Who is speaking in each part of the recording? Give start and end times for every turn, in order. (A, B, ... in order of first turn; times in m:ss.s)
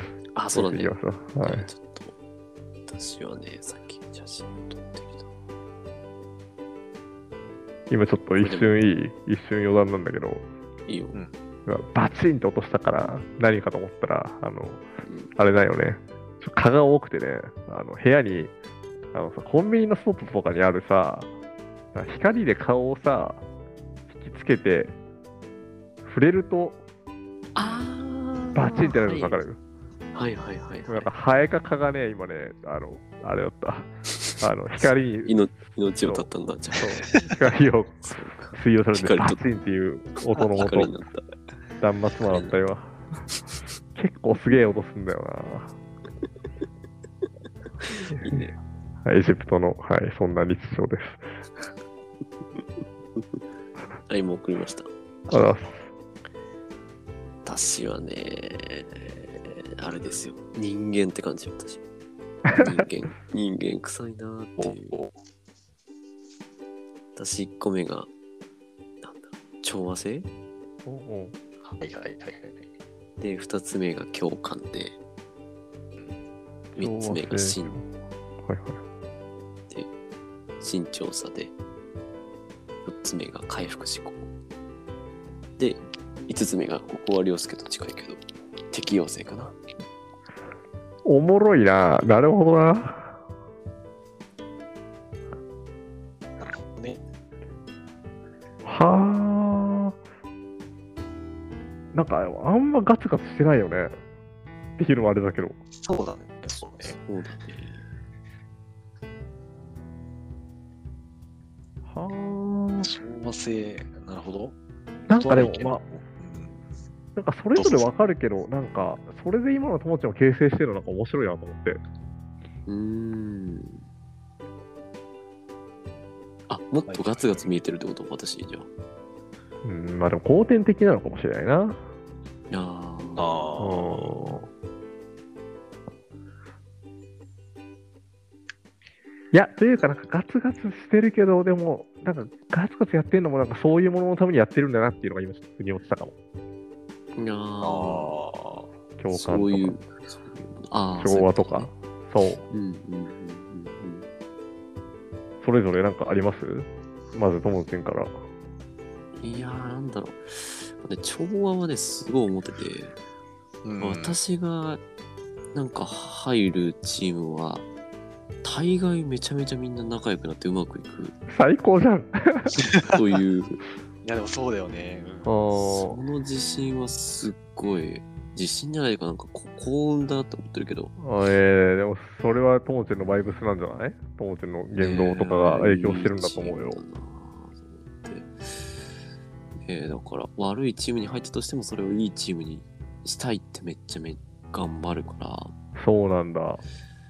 0:00.4-0:02.1 A
0:00.5-0:01.7 B
0:02.9-0:05.3 A
0:07.9-0:10.4 B
0:08.4-0:08.7 A
0:10.9-0:11.2 A
0:11.6-0:14.8 B
0:15.0-0:15.3 A
0:15.4-0:18.5 B
0:19.1-0:21.3 B
0:21.9-0:23.4 B
0:24.1-0:25.0 B
0:26.0-0:26.8 B
0:27.6-0:29.4 A
0:27.6-0:27.8 B
0:28.5-0:29.6 B
0:30.1-0:31.1 A
0:30.9-0:33.9 B
0:34.4-0:35.4 B
0:35.2-0:37.2 A
0:36.0-0:41.0 B
0:38.0-0:39.4 A
0:40.5-0:41.2 A
0:41.8-0:43.2 B
0:42.2-0:42.6 A
0:43.9-0:45.7 B
0:48.1-0:48.5 A
0:49.0-0:51.2 B
0:54.1-0:55.6 A
0:55.3-0:55.9 B
0:57.4-1:01.8 A
1:02.5-1:05.0 A
1:04.6-1:05.1 C
1:07.2-1:08.1 A
1:09.0-1:10.3 A
1:10.8-1:11.3 B
1:11.6-1:12.6 C
1:13.2-1:15.0 A
1:16.7-1:17.8 A
1:16.7-1:17.8 B
1:18.4-1:18.8 B
1:20.6-1:21.5 A
1:22.8-1:24.3 A
1:25.6-1:29.6 A
1:31.0-1:33.2 B
1:36.4-1:37.0 C
1:38.6-1:39.9 B
1:41.9-1:43.9 B
1:44.8-1:45.6 B
1:45.8-1:47.0 C
1:46.8-1:47.8 A
1:51.9-1:52.9 B
1:52.8-1:54.6 C
1:55.1-1:55.8 B
1:55.1-1:56.6 C
1:57.2-2:01.8 B
1:57.6-1:57.8 C
2:02.6-2:03.8 A
2:06.5-2:08.7 A
2:06.9-2:07.5 C
2:09.6-2:11.8 B
2:12.5-2:13.2 A
2:13.2-2:14.2 C
2:13.6-2:14.5 B
2:19.3-2:26.1 B
2:27.1-2:28.2 A
2:27.6-2:28.7 C
2:29.0-2:29.8 B
2:29.1-2:31.7 A
2:31.0-2:32.5 B
2:32.5-2:34.1 A
2:35.4-2:38.1 B
2:39.2-2:42.9 A
2:43.6-2:44.2 C
2:43.8-2:44.8 A
2:45.5-2:47.6 A
2:48.4-2:51.2 A
2:51.3-2:52.6 B
2:52.6-2:52.9 C
2:52.9-2:53.6 A
2:54.0-2:55.4 C
2:55.2-2:56.0 B
2:55.5-3:00.9 A
3:01.0-3:06.8 B
3:04.8-3:08.7 A
3:09.6-3:15.5 A
3:15.7-3:16.6 B